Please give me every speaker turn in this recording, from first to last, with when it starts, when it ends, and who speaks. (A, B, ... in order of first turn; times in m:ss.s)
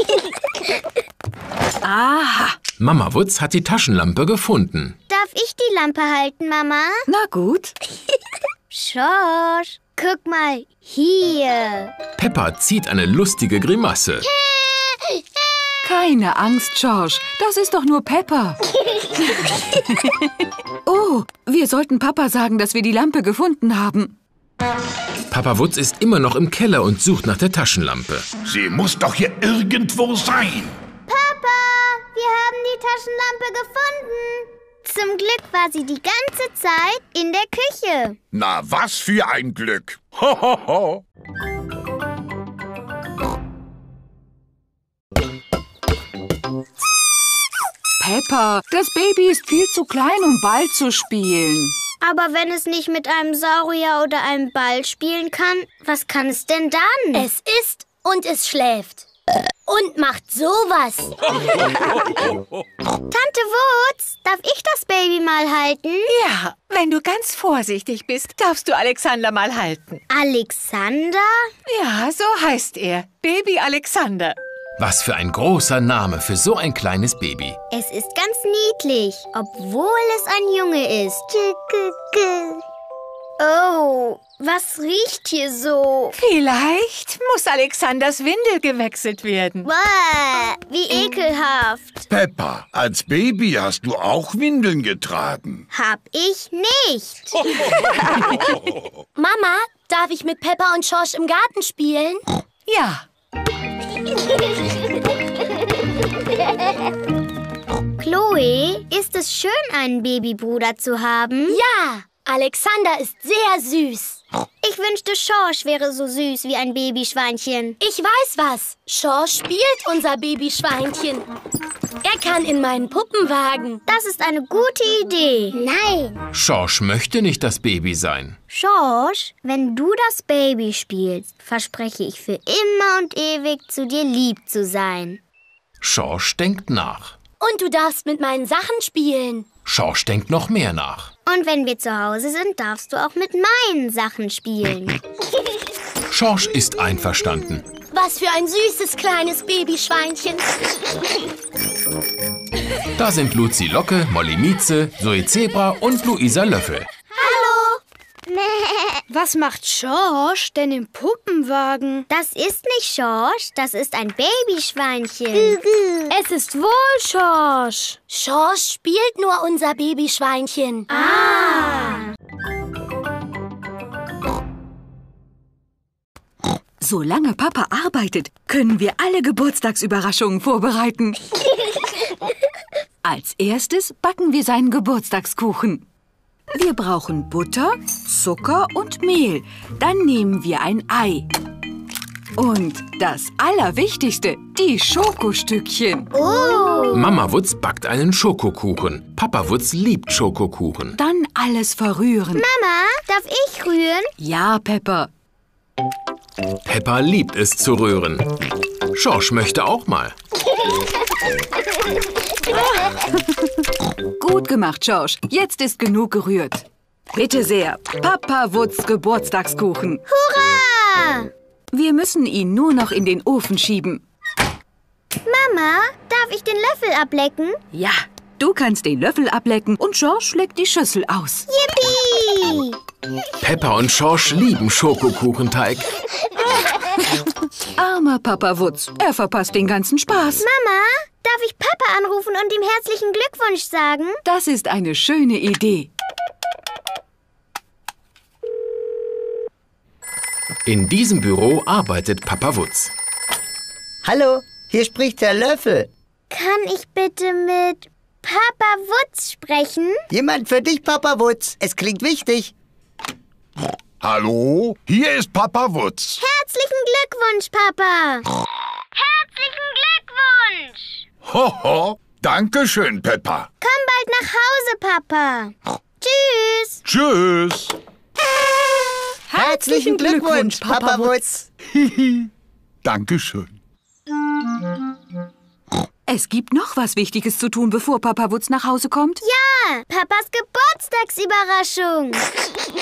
0:01.8-0:02.6 A
0:02.8-0:05.0 B
0:05.1-0:07.0 C
0:07.1-0:07.8 A
0:08.7-0:11.9 C
0:12.2-0:14.3 B
0:15.8-0:18.6 A
0:20.9-0:24.1 A
0:25.3-0:28.3 B
0:28.4-0:30.8 D
0:31.1-0:38.2 C
0:38.3-0:41.0 D
0:48.0-0:51.8 A
0:52.0-0:57.3 C
0:57.1-0:59.0 E
0:59.7-1:01.2 E
1:03.1-1:06.1 C
1:06.1-1:10.0 F
1:10.1-1:11.5 C
1:11.7-1:14.4 F
1:14.8-1:17.6 B
1:17.7-1:22.6 C
1:23.4-1:26.2 C
1:26.2-1:29.7 F
1:29.6-1:32.1 C
1:32.1-1:35.7 D
1:35.7-1:37.4 C
1:39.2-1:42.2 E
1:42.7-1:43.0 F
1:48.0-1:51.6 C
1:51.5-1:54.2 E
1:54.6-1:57.8 C
1:57.8-2:01.2 E
2:02.0-2:03.8 E
2:03.9-2:06.2 C
2:06.3-2:08.4 B
2:08.5-2:15.2 C
2:15.8-2:17.2 B
2:17.4-2:19.5 E
2:19.6-2:21.1 B
2:21.3-2:25.0 C
2:26.1-2:27.7 B
2:27.9-2:30.5 E
2:33.0-2:36.9 B
2:37.2-2:37.8 C
2:39.1-2:42.1 G
2:42.1-2:46.1 C
2:46.1-2:52.0 E
2:51.0-2:52.0 C
2:56.8-3:01.2 A
3:03.0-3:05.8 A
3:06.5-3:11.3 A
3:12.4-3:16.1 A
3:16.1-3:17.1 C
3:16.9-3:21.0 B
3:21.0-3:22.4 A
3:22.3-3:24.1 C
3:24.2-3:25.1 A
3:26.7-3:28.3 B
3:28.9-3:30.1 B
3:33.2-3:33.5 A
3:34.2-3:40.0 A
3:40.1-3:41.3 C
3:41.7-3:44.0 A
3:45.2-3:47.6 C
3:47.7-3:51.5 A
3:51.5-3:52.8 C
3:53.4-3:55.9 B
3:57.8-4:00.4 A
4:00.4-4:04.2 C
4:04.2-4:05.9 A
4:10.7-4:12.9 B
4:14.0-4:15.9 H
4:16.3-4:20.1 C
4:20.1-4:22.5 H
4:24.0-4:26.2 D
4:26.2-4:28.3 C
4:29.0-4:30.9 C
4:31.2-4:33.5 D
4:33.6-4:36.8 C
4:36.8-4:37.8 D
4:39.3-4:41.4 H
4:39.4-4:41.0 F
4:41.7-4:42.3 D
4:42.8-4:43.6 D
4:46.1-4:49.2 A
4:49.2-4:52.2 C